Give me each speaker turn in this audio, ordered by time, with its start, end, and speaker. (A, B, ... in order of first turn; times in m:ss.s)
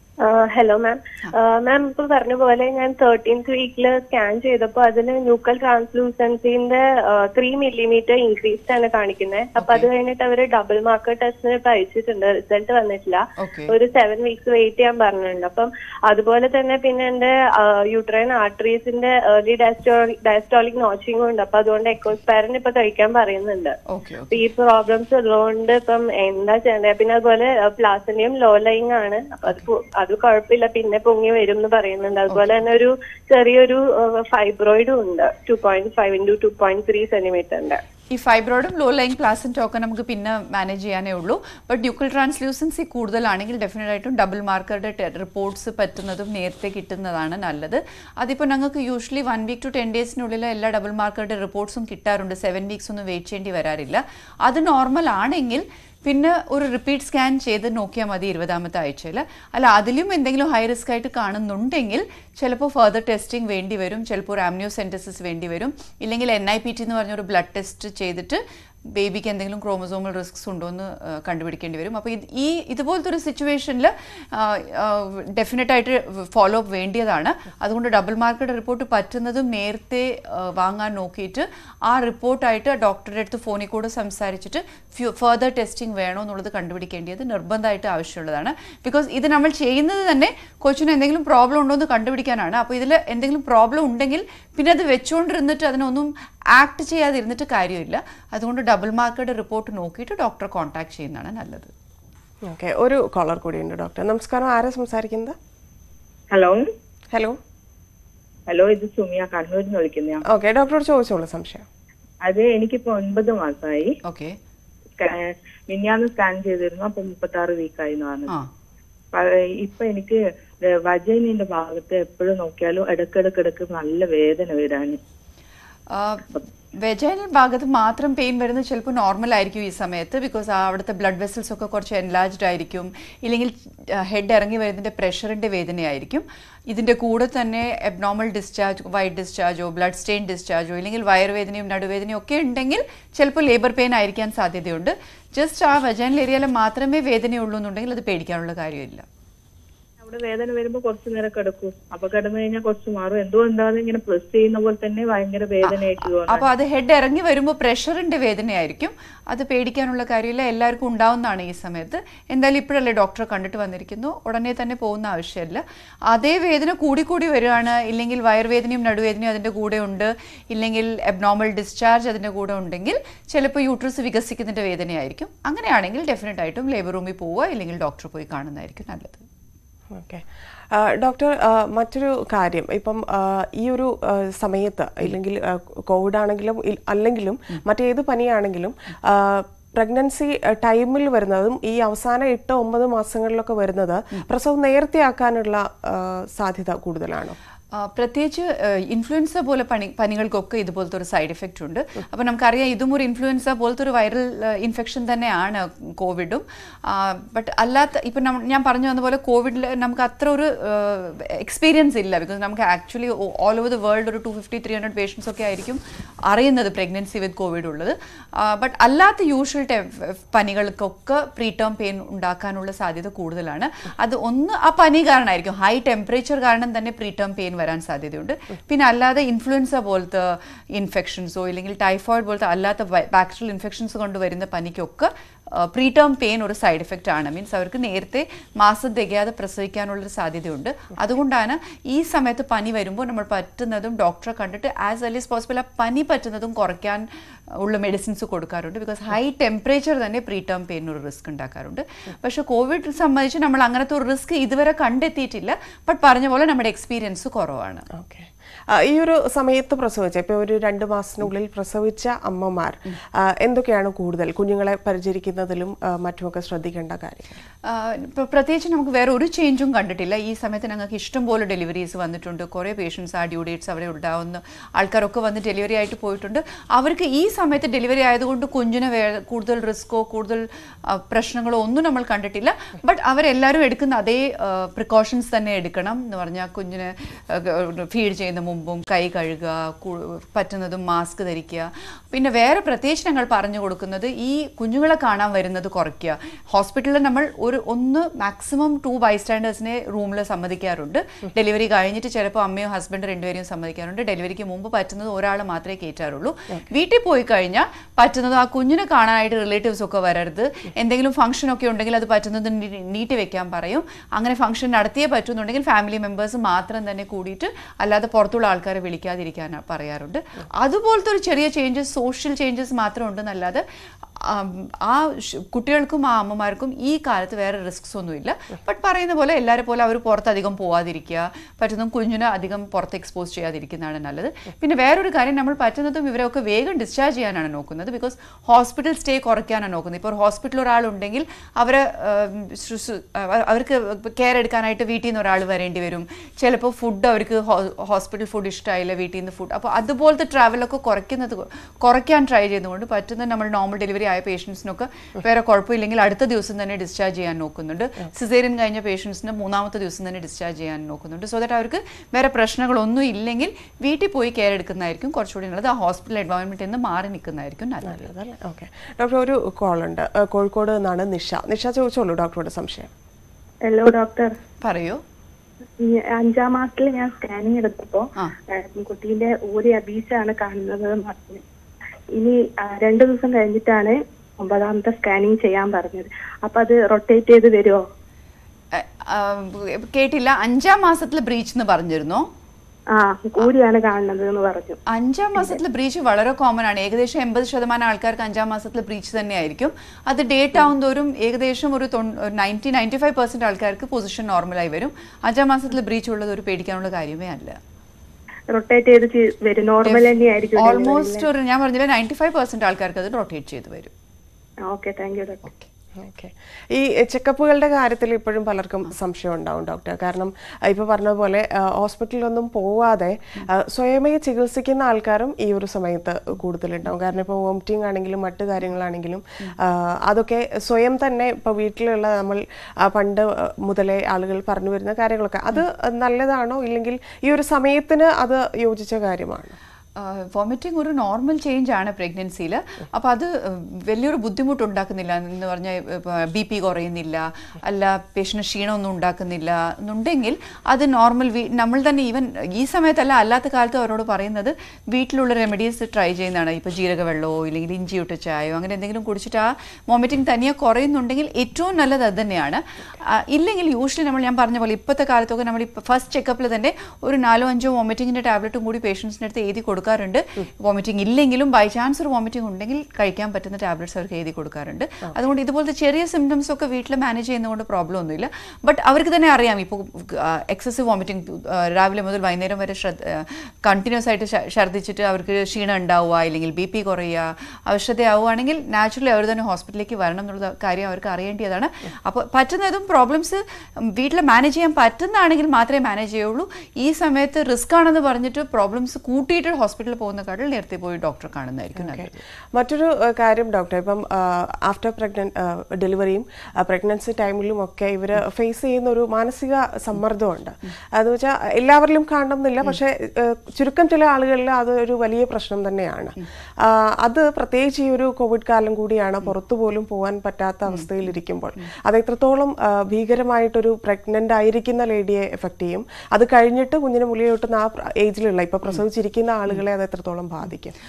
0:00.2-0:23.8 A
0:09.6-0:09.9 B
0:13.4-0:13.7 B
0:23.9-0:24.4 B
0:24.3-0:37.8 A
0:38.1-1:08.4 B
1:08.9-1:41.7 B
1:42.5-1:45.4 C
1:46.3-1:46.7 D
1:47.1-1:47.4 C
1:48.5-1:50.2 D
1:50.2-1:51.6 C
1:52.2-1:53.9 D
1:54.0-1:54.4 B
1:55.0-1:58.3 D
1:59.1-2:05.0 D
2:05.9-2:06.3 B
2:06.8-2:29.0 B
2:30.0-2:36.4 D
2:35.6-2:59.2 B
2:59.9-3:17.4 C
3:17.7-4:07.0 B
4:07.6-4:17.8 B
4:17.9-4:27.4 C
4:27.7-5:23.6 B
5:24.2-6:08.1 B
6:07.8-6:12.9 C
6:13.6-6:14.4 E
6:14.6-6:15.0 B
6:15.8-6:21.4 E
6:22.2-6:27.8 E
6:28.7-6:32.3 B
6:32.9-6:34.8 E
6:34.9-6:47.6 B
6:48.5-6:51.3 E
6:49.8-6:53.9 B
6:54.6-6:55.5 E
6:56.0-7:19.6 C
7:20.0-8:13.4 B
8:13.9-8:22.1 B
8:21.8-8:50.7 C